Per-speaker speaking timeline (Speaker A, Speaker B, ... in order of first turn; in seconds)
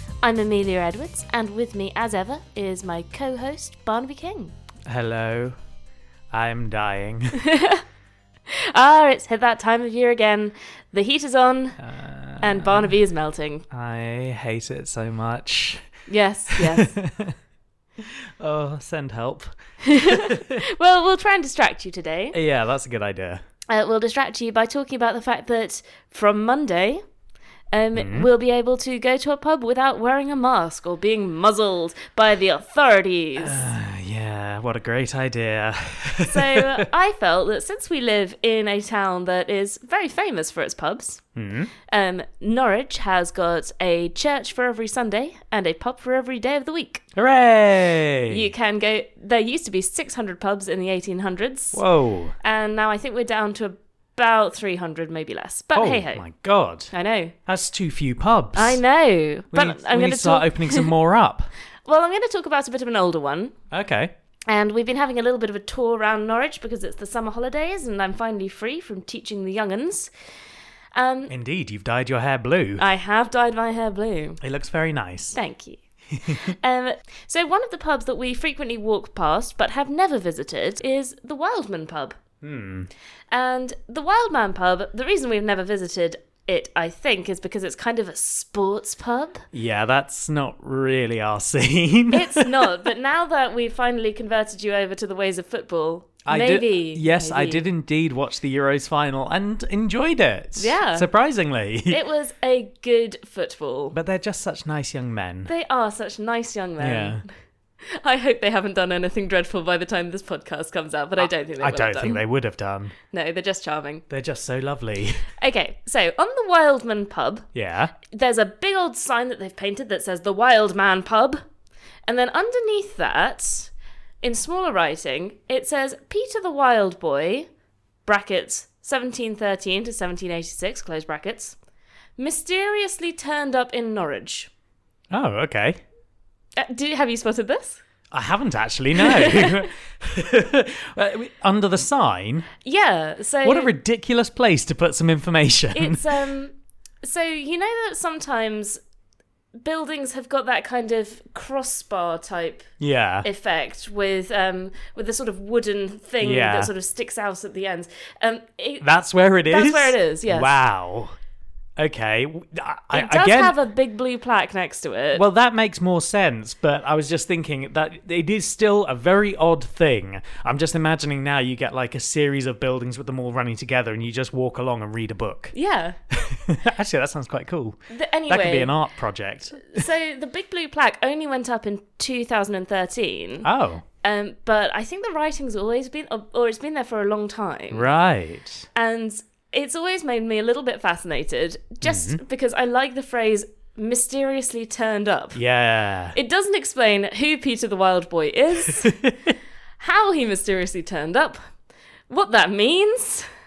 Speaker A: 0.2-4.5, 7.4-7.8, 8.5-11.8, 12.4-13.6, 16.1-16.9, 19.8-22.4, 23.7-27.0, 27.7-33.6, 36.2-41.2, 41.9-47.0, 48.3-51.8, 52.4-56.2, 56.9-57.3, 58.5-60.9, 61.8-63.5, 64.5-70.1, 71.0-71.3, 72.8-74.4, 75.3-82.1, 83.3-89.5, 92.1-97.6, 100.6-101.0, 101.9-104.0, 105.5-107.2, 107.8-112.2, 113.1-114.0, 115.4-117.5, 118.0-121.4, 122.1-127.5, 128.1-131.6, 132.2-134.5, 136.6-137.8, 138.9-139.7, 142.6-143.7, 145.7-148.8, 149.6-152.7, 153.2-158.9, 159.5-160.5, 162.9-165.2, 175.5-176.0, 177.9-178.7, 179.6-183.5, 184.0-187.8, 188.7-195.4, 196.1-199.0, 199.8-201.4, 202.1-203.2
Speaker B: 4.8-5.5, 6.3-7.4, 11.8-12.9, 13.7-15.8, 16.5-17.3, 18.0-20.6, 22.3-23.4, 27.9-28.3, 33.4-36.9, 41.4-41.7, 47.1-48.5, 51.7-52.3, 55.7-56.9, 57.5-58.8, 59.5-61.5, 63.7-64.1, 71.3-72.8, 74.4-75.4, 76.1-76.5, 82.4-82.9, 89.5-92.7, 96.2-102.0, 103.9-105.5, 106.8-107.2, 111.2-112.9, 114.1-115.2, 117.5-117.9, 135.1-135.8, 138.1-142.5, 143.4-146.2, 152.8-153.3, 156.2-156.7, 158.8-161.2, 161.8-163.5, 165.1-175.5, 176.1-179.8, 183.4-183.8, 187.7-188.7, 191.8-192.2, 195.3-196.2, 198.7-199.3